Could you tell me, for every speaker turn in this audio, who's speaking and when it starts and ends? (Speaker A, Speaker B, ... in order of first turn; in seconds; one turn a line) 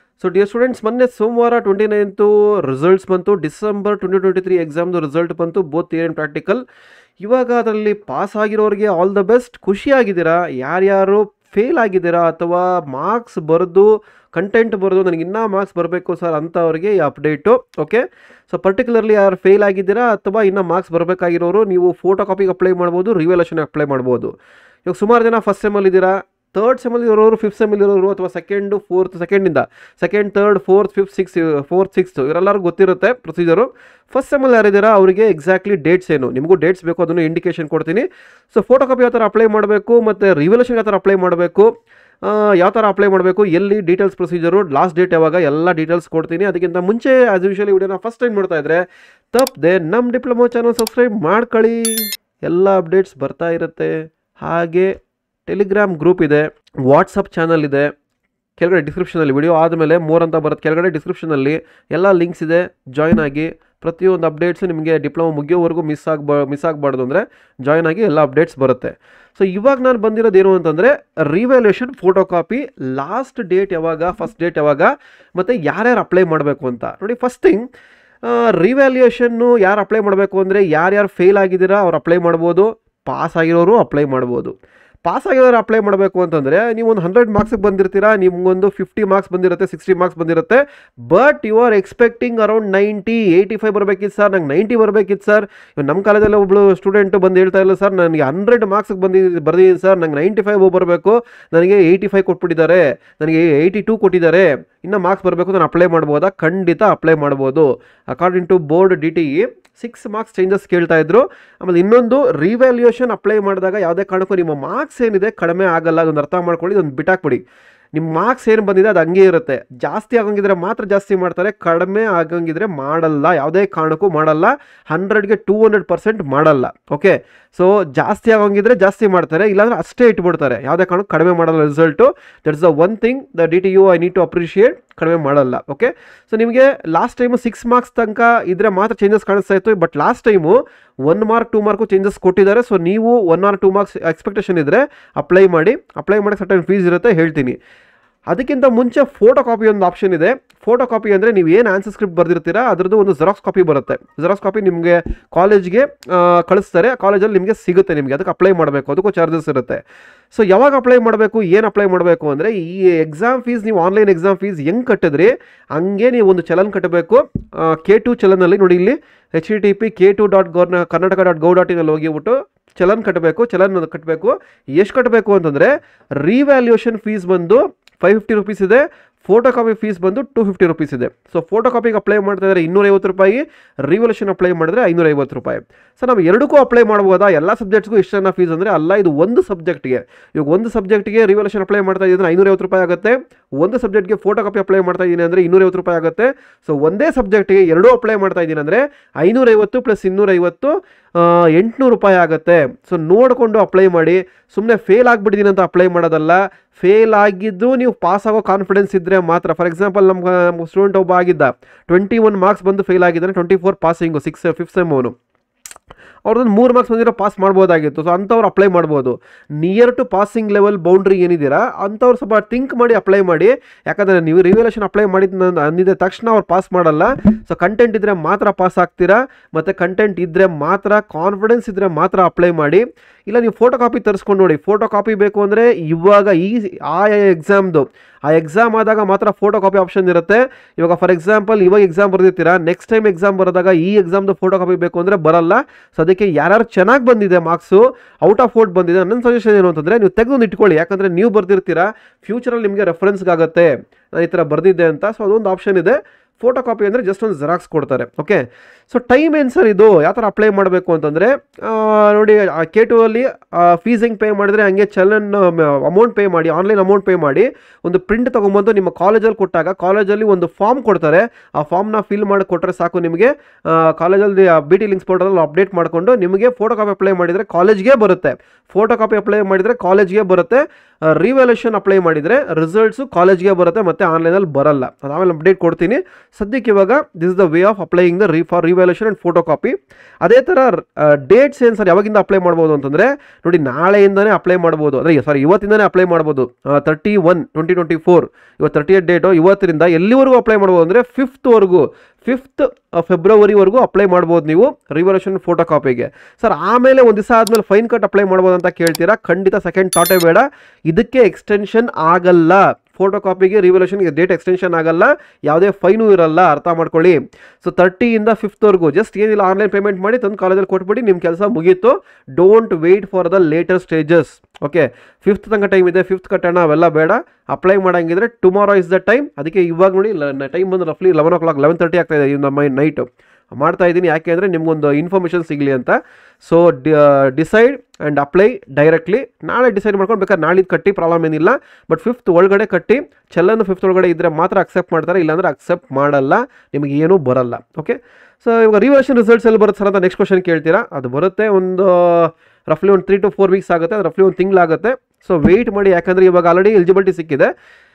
Speaker A: 0.2-6.6
Speaker A: 7.2-24.3
Speaker A: 24.9-41.7
Speaker A: 42.2-54.9
Speaker A: 55.5-57.9
Speaker A: 58.6-77.7
Speaker A: 78.2-84.5
Speaker A: 85.0-117.4
Speaker A: 117.9-147.6
Speaker A: 148.3-159.8
Speaker A: 160.3-215.1
Speaker A: 216.2-357.5